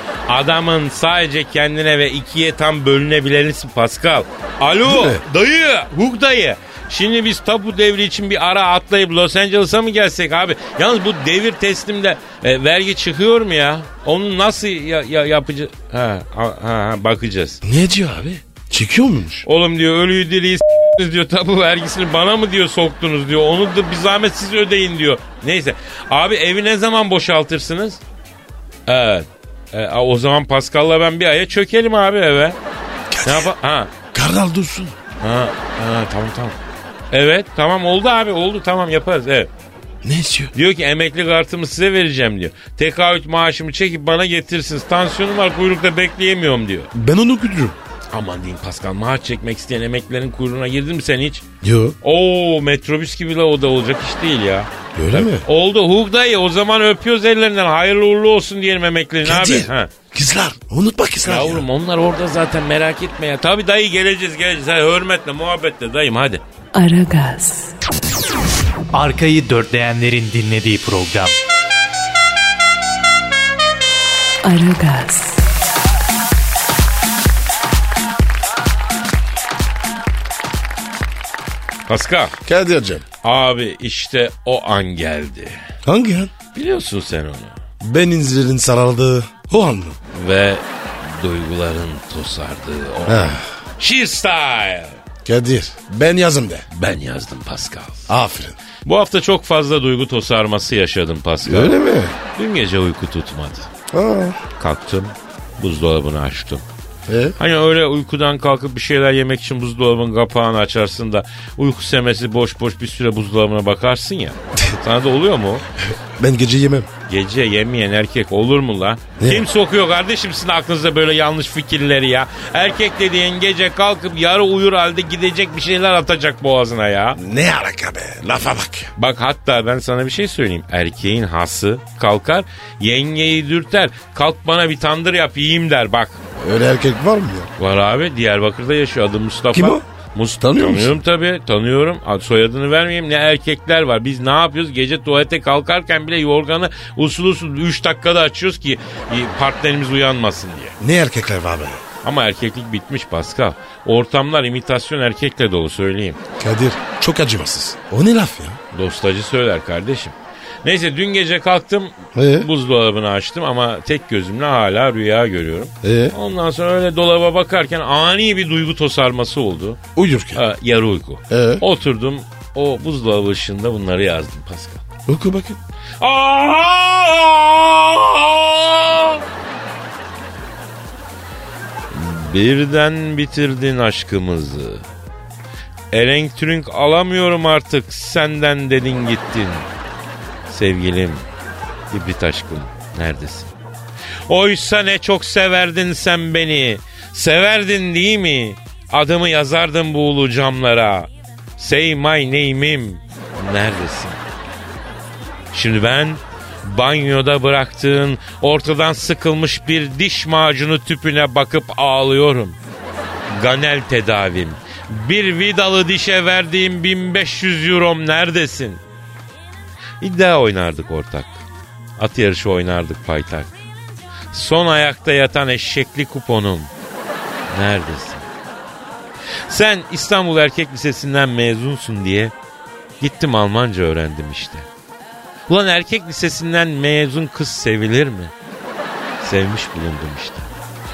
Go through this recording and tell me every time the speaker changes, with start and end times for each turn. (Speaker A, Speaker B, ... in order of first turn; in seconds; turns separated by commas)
Speaker A: 0.3-17.6, Speaker B: 4.8-5.2, Speaker B: 17.6-19.5, Speaker A: 19.4-28.0, Speaker A: 28.9-32.6, Speaker B: 33.1-33.5, Speaker A: 33.2-33.9, Speaker B: 34.1-35.0, Speaker A: 35.2-36.6, Speaker A: 37.1-39.5, Speaker B: 40.0-40.5, Speaker A: 40.5-46.9, Speaker B: 46.9-47.8, Speaker A: 48.1-51.4, Speaker B: 51.6-52.0, Speaker A: 52.0-59.9, Speaker B: 54.9-55.5, Speaker B: 59.2-61.6, Speaker A: 61.2-66.4, Speaker C: 66.7-67.7, Speaker D: 68.9-71.3, Speaker C: 74.4-75.4, Speaker A: 81.9-82.3, Speaker B: 82.4-83.0, Speaker A: 83.2-85.6, Speaker B: 85.8-86.3, Speaker A: 86.5-87.5, Speaker B: 87.8-90.0, Speaker A: 90.1-95.0, Speaker B: 93.0-93.4, Speaker B: 95.2-96.7, Speaker A: 96.7-98.1, Speaker B: 98.1-98.6, Speaker A: 98.8-101.8, Speaker B: 101.4-102.2, Speaker A: 102.3-103.7, Speaker B: 103.9-104.4, Speaker A: 104.6-106.6, Speaker B: 107.1-107.4, Speaker A: 107.4-115.6, Speaker B: 116.2-116.9, Speaker A: 117.1-127.2, Speaker B: 119.2-119.5, Speaker B: 127.2-128.9, Speaker A: 128.9-136.2, Speaker B: 136.4-137.5, Speaker A: 137.6-150.8, Speaker B: 139.5-139.8, Speaker B: 140.4-140.9, Speaker B: 150.8-151.8, Speaker A: 152.0-156.2, Speaker B: 156.4-158.6, Speaker A: 158.7-169.8, Speaker B: 162.1-162.5, Speaker B: 165.8-166.2, Speaker B: 169.9-170.4, Speaker A: 170.3-174.8, Speaker B: 171.3-171.6, Speaker B: 175.1-175.6, Speaker A: 176.0-179.2, Speaker A: 181.9-184.9, Speaker A: 185.9-189.7, Speaker A: 190.5-191.2, Speaker A: 191.9-193.5, Speaker A: 194.3-204.2, Speaker A: 205.5-212.6, Speaker A: 213.3-218.8, Speaker A: 220.0-221.4, Speaker A: 222.0-223.5, Speaker A: 224.3-226.7, Speaker A: 227.5-228.3, Speaker A: 229.5-232.3, Speaker A: 233.0-234.7, Speaker A: 235.5-238.3, Speaker A: 239.2-240.5